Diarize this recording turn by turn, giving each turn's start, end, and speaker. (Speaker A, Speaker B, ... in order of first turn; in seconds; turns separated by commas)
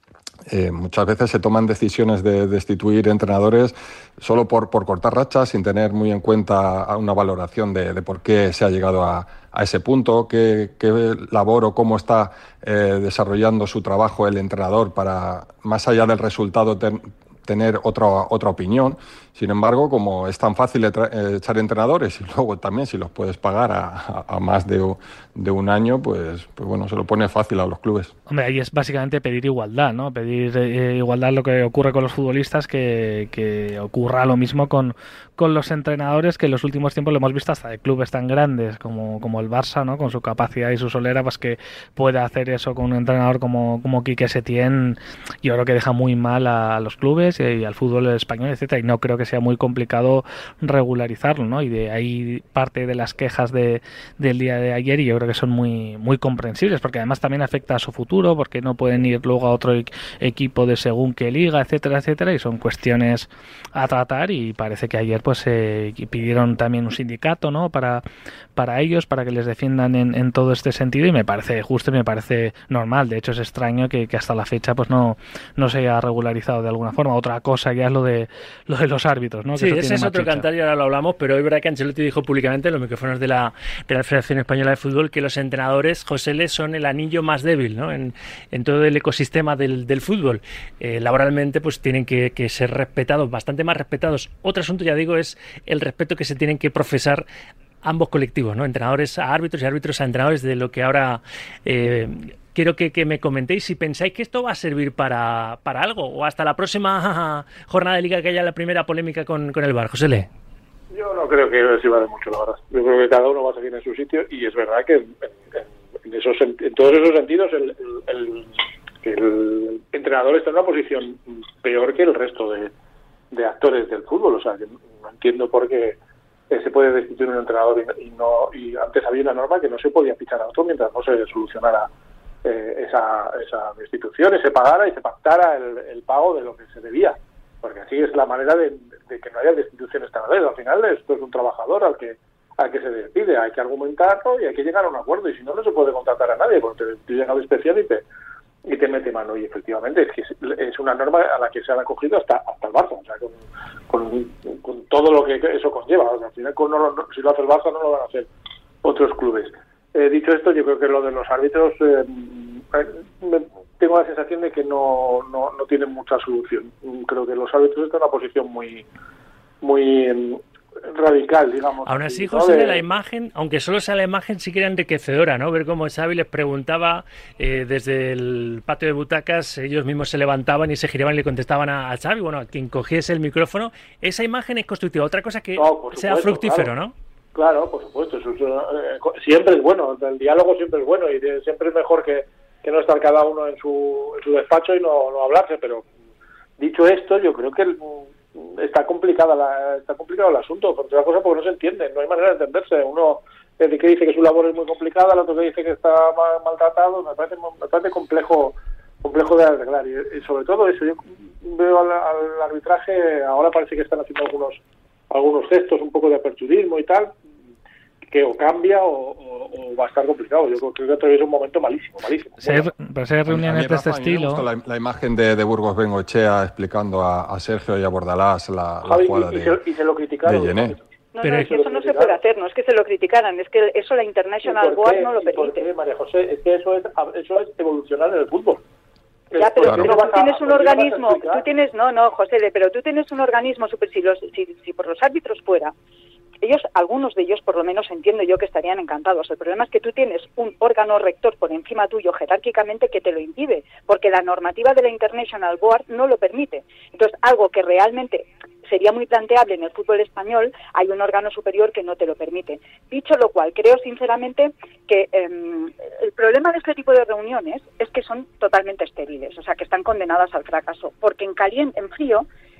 Speaker A: 0.5-28.1, Speaker B: 28.3-68.0, Speaker B: 68.5-80.5, Speaker C: 79.5-97.2, Speaker C: 97.8-110.3, Speaker D: 110.9-118.5, Speaker D: 119.0-122.7, Speaker D: 123.3-126.0, Speaker D: 126.5-131.9, Speaker D: 132.4-148.0, Speaker D: 148.6-153.4, Speaker D: 153.9-158.3, Speaker D: 158.8-168.8, Speaker D: 169.6-172.8, Speaker C: 171.8-186.9, Speaker D: 185.6-186.7, Speaker D: 187.3-195.9, Speaker D: 196.6-217.2, Speaker D: 218.1-222.7, Speaker B: 222.4-224.4, Speaker A: 223.3-229.6, Speaker D: 228.8-232.2, Speaker A: 230.2-230.8, Speaker E: 231.1-235.7, Speaker C: 231.2-231.5, Speaker D: 234.4-238.6, Speaker D: 239.3-241.4, Speaker E: 239.4-245.7, Speaker A: 239.7-239.9, Speaker E: 246.4-272.2